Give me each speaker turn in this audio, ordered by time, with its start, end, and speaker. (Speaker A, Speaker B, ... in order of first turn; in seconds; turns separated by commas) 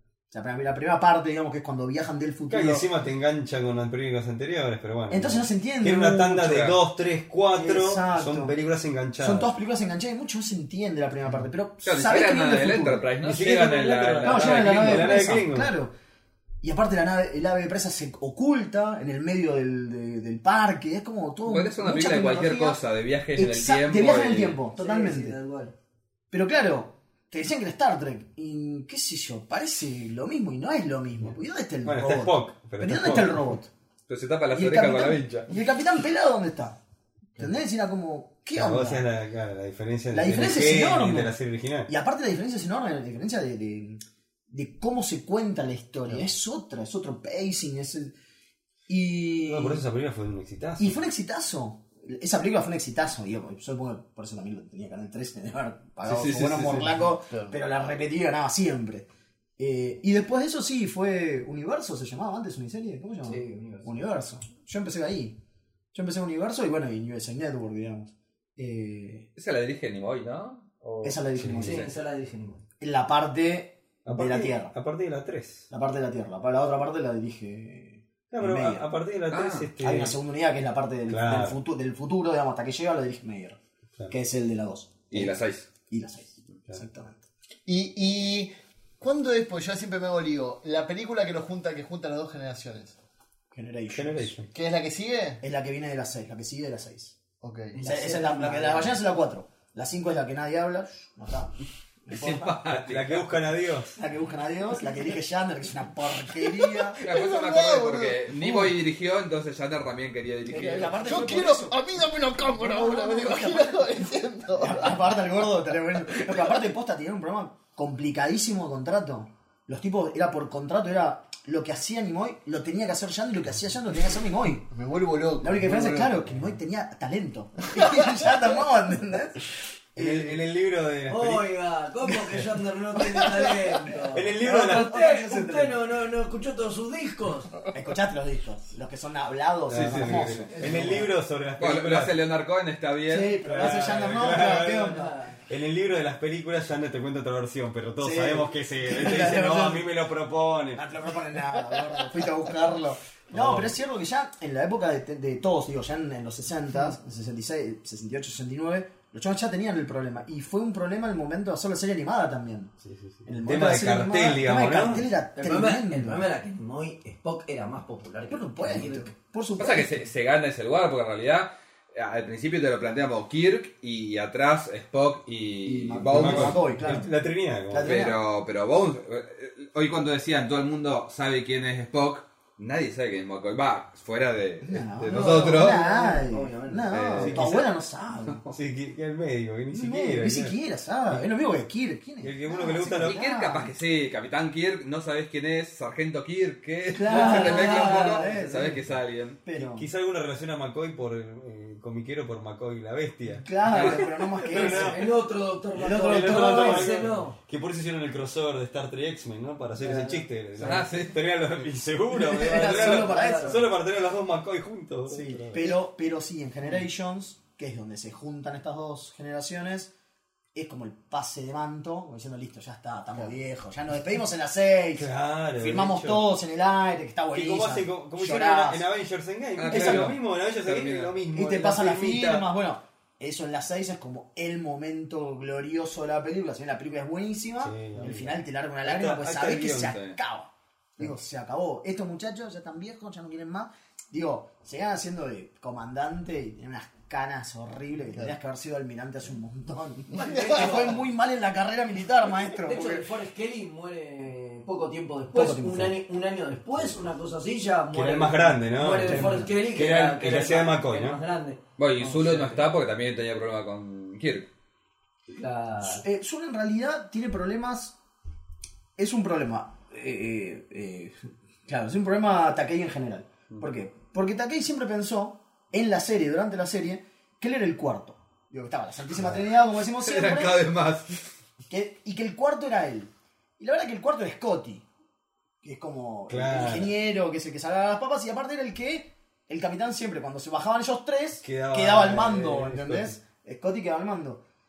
Speaker A: 0.3-2.8, Speaker B: 2.5-9.5, Speaker A: 5.1-6.6, Speaker C: 6.5-6.8, Speaker A: 7.5-8.5, Speaker A: 9.2-13.0, Speaker C: 11.8-15.2, Speaker B: 13.2-15.7, Speaker A: 14.2-15.9, Speaker A: 16.6-22.8, Speaker C: 21.4-24.6, Speaker A: 23.3-25.4, Speaker D: 24.8-25.7, Speaker A: 26.3-33.7, Speaker B: 31.2-33.5, Speaker C: 34.1-35.5, Speaker A: 34.5-36.8, Speaker A: 37.4-39.0, Speaker B: 38.5-41.9, Speaker A: 40.1-41.3, Speaker A: 41.9-48.1, Speaker A: 48.9-49.8, Speaker B: 49.4-51.0, Speaker A: 50.8-65.4, Speaker C: 56.1-56.9, Speaker E: 57.3-57.6, Speaker D: 63.2-64.0, Speaker A: 65.9-69.3, Speaker C: 69.3-71.9, Speaker A: 71.0-71.9, Speaker B: 71.4-71.9, Speaker D: 71.6-72.6, Speaker A: 72.8-74.7, Speaker B: 74.0-75.7, Speaker A: 75.7-78.9, Speaker B: 78.3-80.2, Speaker C: 79.3-79.7, Speaker A: 79.8-85.4, Speaker B: 81.1-81.6, Speaker C: 85.1-85.7, Speaker A: 85.9-87.2, Speaker E: 87.7-93.0, Speaker A: 93.5-94.3, Speaker B: 93.9-94.5, Speaker E: 94.5-95.4, Speaker A: 95.4-97.2, Speaker E: 97.4-97.8, Speaker D: 97.7-99.0, Speaker A: 97.8-101.5, Speaker A: 102.0-102.6, Speaker C: 102.1-103.3, Speaker B: 102.8-104.0, Speaker A: 104.0-107.0, Speaker E: 106.4-108.8, Speaker C: 107.0-111.3, Speaker A: 110.5-111.8, Speaker E: 111.0-115.2, Speaker A: 112.5-124.7, Speaker E: 116.0-116.6, Speaker E: 124.7-126.2, Speaker A: 125.4-130.4, Speaker E: 127.7-128.1, Speaker B: 129.9-131.5, Speaker D: 131.1-137.6, Speaker B: 134.1-134.9, Speaker A: 134.4-135.8, Speaker A: 137.7-141.1, Speaker B: 139.7-142.2, Speaker C: 139.7-140.3, Speaker D: 140.5-140.9, Speaker C: 141.6-143.9, Speaker A: 143.1-145.1, Speaker B: 143.4-150.8, Speaker D: 144.8-145.4, Speaker A: 148.0-149.8, Speaker A: 150.7-162.7, Speaker B: 153.3-153.8, Speaker B: 162.8-165.1, Speaker A: 163.2-166.3, Speaker D: 165.3-169.1, Speaker A: 168.3-170.0, Speaker C: 169.6-176.6, Speaker A: 175.6-177.1, Speaker B: 176.1-178.0, Speaker A: 177.7-178.2, Speaker C: 177.8-185.8, Speaker A: 184.6-188.5, Speaker D: 185.1-187.2, Speaker C: 186.9-187.7, Speaker B: 187.2-187.6, Speaker B: 188.5-190.6, Speaker A: 189.7-193.7, Speaker B: 192.2-193.2, Speaker C: 192.9-199.4, Speaker A: 196.9-198.9, Speaker D: 197.1-198.5, Speaker A: 199.4-199.8, Speaker B: 199.5-205.1, Speaker A: 203.4-205.0, Speaker C: 203.7-204.1, Speaker D: 204.6-207.3, Speaker A: 205.8-207.0, Speaker B: 206.0-215.8, Speaker D: 209.8-210.8, Speaker C: 210.6-211.2, Speaker A: 212.1-213.6, Speaker D: 212.4-213.6, Speaker A: 215.1-219.9, Speaker A: 220.5-228.8, Speaker B: 224.9-226.3, Speaker B: 227.3-232.5, Speaker C: 229.6-231.2, Speaker A: 229.7-230.2, Speaker A: 231.3-253.0, Speaker B: 237.6-240.0, Speaker C: 239.7-240.2, Speaker E: 250.1-250.9, Speaker D: 250.1-251.0, Speaker D: 252.6-262.6, Speaker A: 255.3-255.9, Speaker B: 257.9-261.2, Speaker A: 258.9-259.4, Speaker C: 261.8-264.5, Speaker D: 265.3-266.0, Speaker A: 265.8-267.9, Speaker A: 269.0-280.6, Speaker B: 279.1-279.4, Speaker C: 279.9-281.3, Speaker A: 281.7-284.8, Speaker A: 285.6-294.4, Speaker B: 286.3-286.9, Speaker B: 291.4-293.2